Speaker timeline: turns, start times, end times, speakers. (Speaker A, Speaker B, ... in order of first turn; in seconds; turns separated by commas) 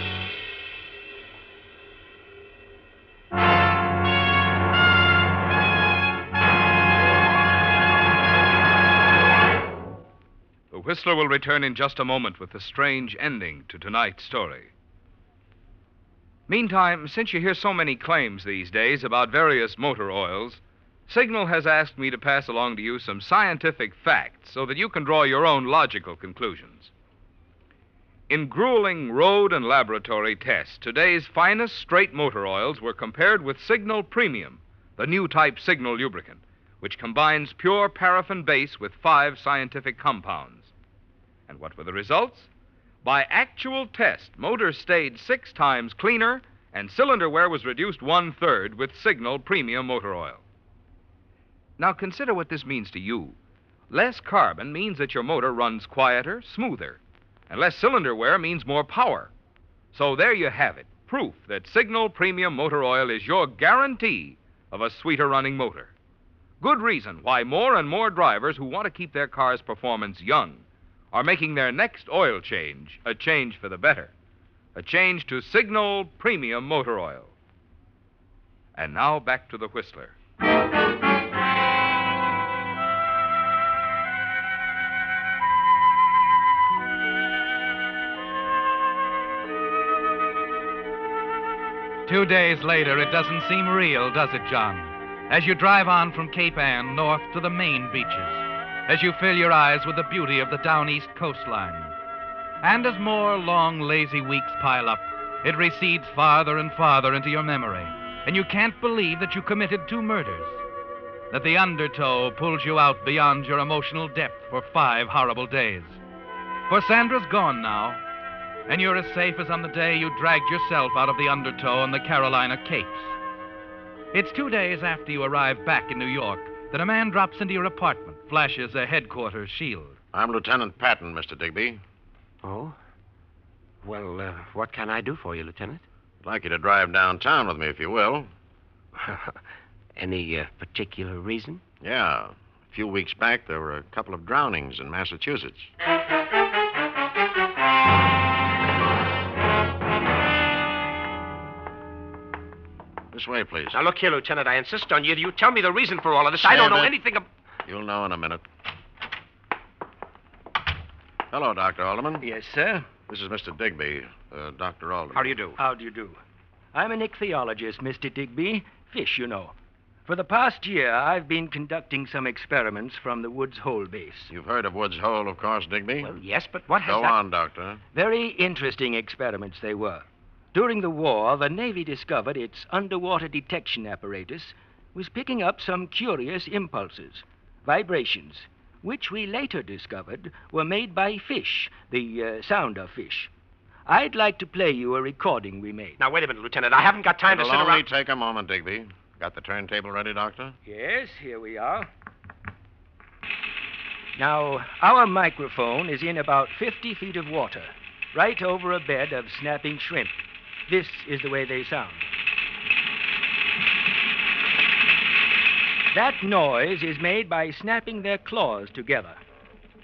Speaker A: 10.7-14.7, Speaker A: 16.5-26.9, Speaker A: 28.3-40.7, Speaker A: 41.5-42.5, Speaker A: 43.0-50.4, Speaker A: 51.8-53.4, Speaker A: 53.9-59.3, Speaker A: 59.9-65.9, Speaker A: 66.6-74.1, Speaker A: 74.7-77.3, Speaker A: 78.8-80.1, Speaker B: 92.0-101.9, Speaker B: 102.6-110.6, Speaker B: 111.3-116.0, Speaker B: 116.7-118.0, Speaker B: 118.7-123.1, Speaker B: 124.1-130.0, Speaker C: 130.1-131.8, Speaker D: 132.4-132.8, Speaker D: 133.8-135.8, Speaker C: 136.2-138.3, Speaker D: 139.0-139.4, Speaker D: 139.9-141.6, Speaker C: 141.8-145.7, Speaker C: 153.1-153.8, Speaker D: 153.7-157.2, Speaker E: 156.4-156.9, Speaker C: 157.7-158.4, Speaker C: 161.3-162.2, Speaker E: 162.2-162.9, Speaker C: 163.1-165.3, Speaker D: 165.1-165.6, Speaker E: 165.6-166.2, Speaker E: 166.7-174.3, Speaker C: 174.3-176.2, Speaker D: 176.0-177.2, Speaker C: 176.8-177.8, Speaker E: 177.9-193.3, Speaker E: 193.9-196.0, Speaker D: 196.0-197.8, Speaker C: 197.2-200.6, Speaker E: 200.6-201.9, Speaker E: 204.2-212.1, Speaker E: 215.9-219.2